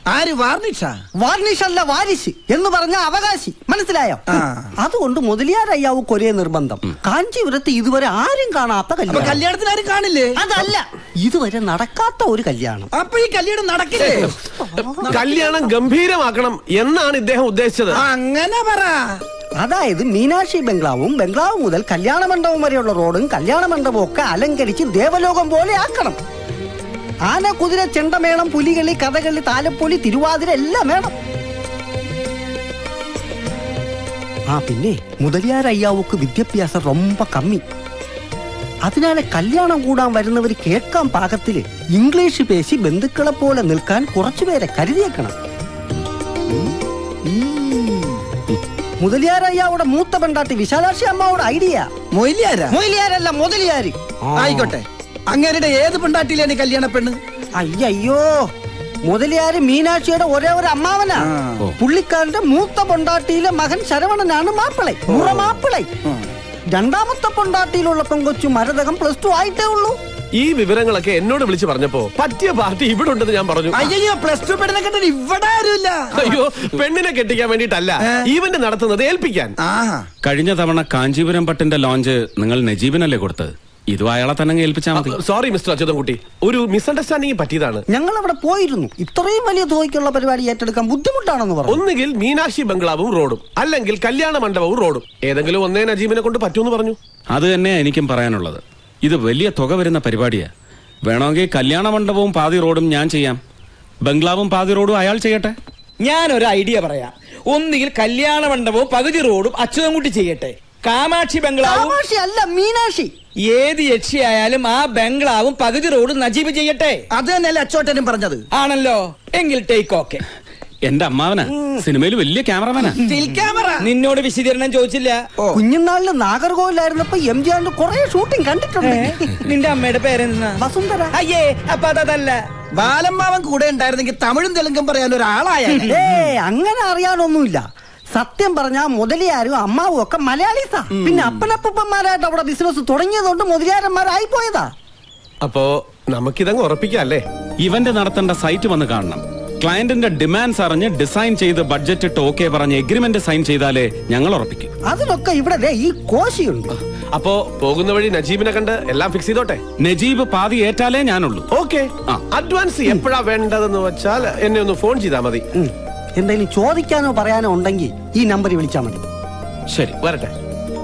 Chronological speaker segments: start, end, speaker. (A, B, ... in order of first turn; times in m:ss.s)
0:00.1-0:00.9 A
0:01.2-0:04.2 B
0:04.3-0:04.7 A
0:04.8-0:09.4 B
0:09.1-0:10.3 A
0:10.4-0:12.9 B
0:12.9-0:14.3 A
0:15.1-0:18.0 C
0:18.0-0:19.0 A
0:19.6-0:26.2 B
0:27.3-0:31.1 B
0:34.5-0:37.6 B
0:38.8-0:45.3 B
0:47.3-0:48.1 A
0:49.0-0:51.9 B
0:52.2-0:52.8 A
0:52.7-0:54.7 B
0:54.4-0:57.2 A
0:57.6-0:58.3 B
0:59.0-1:01.3 B
1:01.2-1:01.6 A
1:01.8-1:05.9 B
1:05.1-1:05.5 A
1:06.8-1:10.0 B
1:10.4-1:13.9 C
1:13.7-1:16.3 A
1:16.2-1:19.5 C
1:19.6-1:20.1 A
1:20.2-1:25.2 D
1:24.9-1:27.8 C
1:27.9-1:31.8 B
1:31.7-1:37.0 C
1:37.3-1:40.5 D
1:41.1-1:43.4 D
1:44.0-1:45.6 D
1:46.0-1:52.0 E
1:51.6-1:53.1 B
1:53.5-1:57.0 E
1:57.1-1:58.4 A
1:58.6-2:00.2 E
2:00.8-2:03.0 D
2:03.0-2:03.8 A
2:03.1-2:05.2 E
2:05.6-2:09.3 B
2:08.9-2:10.6 E
2:10.6-2:11.1 B
2:11.2-2:12.4 E
2:12.8-2:15.9 A
2:15.7-2:16.2 E
2:15.9-2:24.7 B
2:21.0-2:21.4 A
2:25.4-2:27.2 C
2:27.6-2:34.7 D
2:34.9-2:36.7 B
2:37.2-2:39.6 C
2:39.8-2:41.5 D
2:41.5-2:45.4 C
2:45.6-2:49.0 B
2:49.7-2:50.3 D